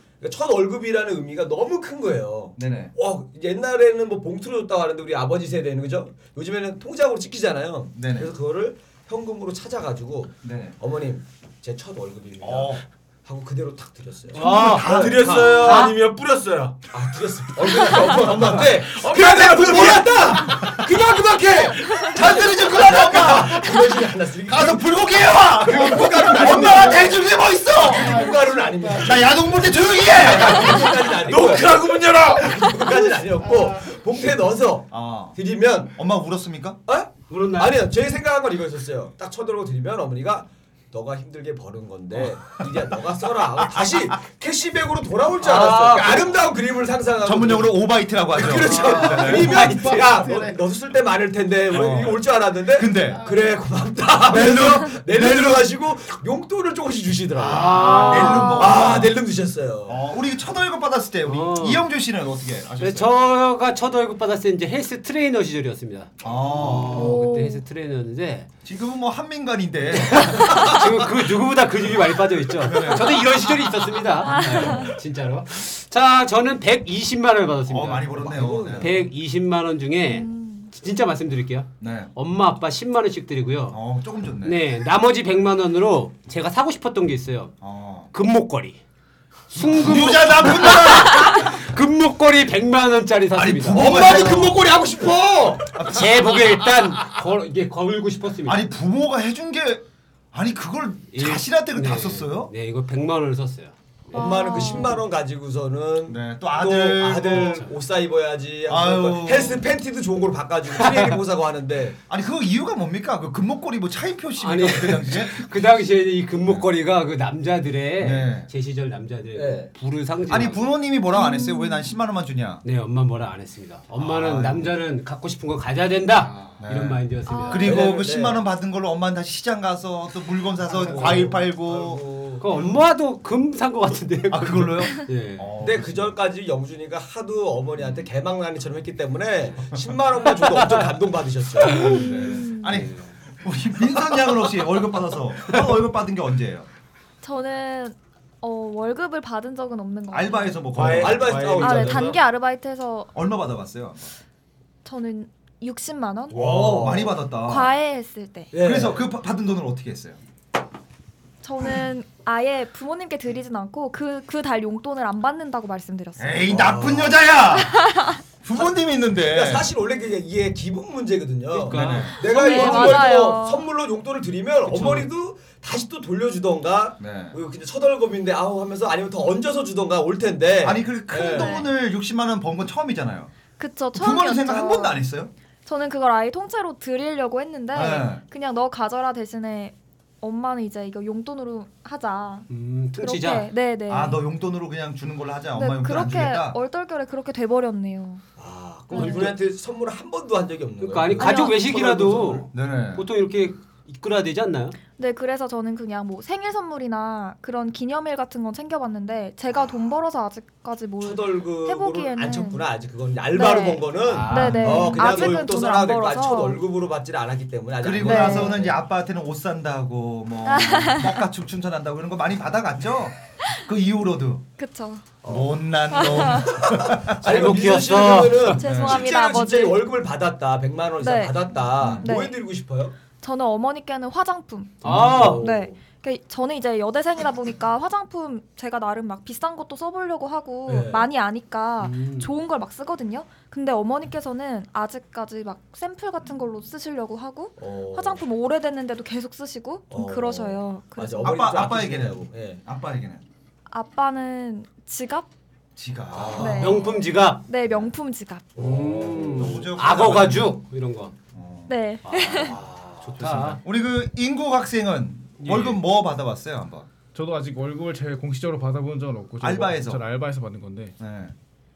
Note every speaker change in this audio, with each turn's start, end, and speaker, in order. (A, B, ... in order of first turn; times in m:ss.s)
0:00.2-0:15.9 A
0:02.6-0:02.9 B
0:07.9-0:08.3 B
0:10.4-0:10.8 B
0:12.4-0:12.8 B
0:14.3-0:15.8 B
0:14.3-0:15.9 C
0:14.4-0:16.9 D
0:16.9-0:36.0 A
0:17.6-0:22.1 D
0:22.1-0:23.7 B
0:24.5-0:28.3 B
0:26.1-0:26.9 E
0:29.0-0:30.9 B
0:31.0-0:32.6 D
0:34.9-0:35.4 B
0:35.9-0:36.8 B
0:36.9-1:00.0 A
0:37.3-0:37.8 C
0:43.6-0:44.2 B
0:45.4-0:46.5 B
0:47.2-0:49.9 B
0:48.8-0:50.5 E
0:51.7-0:53.3 B
0:54.2-0:55.7 B
0:57.4-0:58.6 C
0:57.4-0:59.2 B
0:57.9-0:58.8 F
0:59.8-1:03.2 B
1:01.2-1:01.9 C
1:02.8-1:08.5 C
1:06.2-1:07.2 B
1:06.9-1:07.6 F
1:08.6-1:11.3 B
1:09.9-1:23.8 C
1:12.6-1:13.7 B
1:14.2-1:14.9 F
1:14.4-1:14.9 B
1:17.7-1:19.1 B
1:18.2-1:19.1 A
1:20.1-1:20.7 F
1:21.8-1:22.1 B
1:23.7-1:24.6 B
1:24.4-1:27.5 C
1:27.6-1:28.1 B
1:28.1-1:28.8 C
1:29.5-1:34.1 C
1:29.6-1:31.4 B
1:33.3-1:34.6 B
1:33.7-1:35.8 A
1:35.7-1:36.4 B
1:35.9-1:38.7 C
1:38.4-1:42.5 B
1:41.1-1:43.7 C
1:44.1-1:45.0 F
1:44.1-1:52.0 A
1:46.1-1:47.6 B
1:47.3-1:47.7 C
1:48.7-1:49.7 B
1:50.8-1:51.1 C
1:52.1-1:55.4 B
1:54.4-2:00.7 C
1:58.0-1:58.5 B
1:59.3-1:59.7 A
2:00.3-2:02.6 B
2:01.1-2:01.8 F
2:02.6-2:07.7 C
2:03.9-2:04.7 B
2:06.6-2:12.0 B
2:07.2-2:07.8 F
2:07.6-2:08.4 A
2:10.7-2:12.7 A
2:10.9-2:11.3 C
2:12.4-2:15.5 C
2:14.3-2:16.2 B
2:15.6-2:22.1 A
2:17.8-2:18.1 B
2:21.8-2:22.8 F
2:21.8-2:26.7 B
2:22.7-2:23.0 C
2:27.2-2:30.7 F
2:30.1-2:31.6 B
2:30.7-2:32.2 D
2:30.9-2:32.2 A
2:31.6-2:33.1 F
2:33.1-2:34.1 B
2:34.8-2:36.4 F
2:36.3-2:37.2 A
2:36.3-2:37.7 B
2:37.4-2:38.5 F
2:38.5-2:39.0 A
2:38.5-2:40.2 B
2:41.4-2:46.4 F
2:46.2-2:47.9 B
2:46.5-2:47.3 A
2:47.5-2:48.2 F
2:48.4-2:49.7 B
2:49.2-3:01.6 A
2:51.5-2:53.0 C
2:51.7-2:52.2 B
2:52.2-2:53.7 F
2:54.7-2:55.1 C
2:57.0-2:57.4 B
3:00.6-3:03.3 B
3:01.2-3:01.7 F
3:03.6-3:05.0 F
3:03.9-3:05.3 B
3:05.6-3:14.2 F
3:07.7-3:08.2 B
3:12.5-3:13.5 C
3:13.9-3:16.6 B
3:15.5-3:18.2 F
3:18.4-3:22.5 A
3:18.9-3:19.4 F
3:18.9-3:19.4 C
3:20.8-3:24.8 C
3:21.2-3:21.7 F
3:22.5-3:23.0 B
3:25.0-3:32.7 F
3:31.0-3:38.7 A
3:33.3-3:36.6 F
3:34.0-3:35.4 C
3:37.8-3:44.4 B
3:38.0-3:38.6 F
3:40.4-3:41.2 F
3:44.6-3:45.2 F
3:45.2-3:45.5 A
3:45.2-3:47.6 B
3:45.9-3:46.6 F
3:46.6-3:52.9 A
3:47.2-3:48.6 C
3:48.4-3:49.8 F
3:48.6-3:49.1 B
3:51.0-3:52.4 F
3:51.8-3:52.1 B
3:53.2-4:11.4 F
3:54.8-3:55.4 C
3:54.8-3:55.8 A
4:00.6-4:01.1 A
4:01.8-4:02.3 C
4:07.6-4:08.2 A
4:09.9-4:12.6 A
4:11.2-4:13.2 B
4:13.7-4:15.3 F
4:15.8-4:16.7 B
4:16.1-4:17.0 A
4:16.3-4:18.6 F
4:16.5-4:17.4 C
4:18.6-4:21.1 C
4:18.6-4:19.6 A
4:19.3-4:20.6 B
4:21.3-4:22.2 B
4:21.7-4:22.6 F
4:22.1-4:23.6 C
4:22.5-4:23.1 A
4:23.2-4:26.9 B
4:25.4-4:25.8 C
4:27.1-4:31.0 E
4:29.4-4:30.0 B
4:31.0-4:31.3 B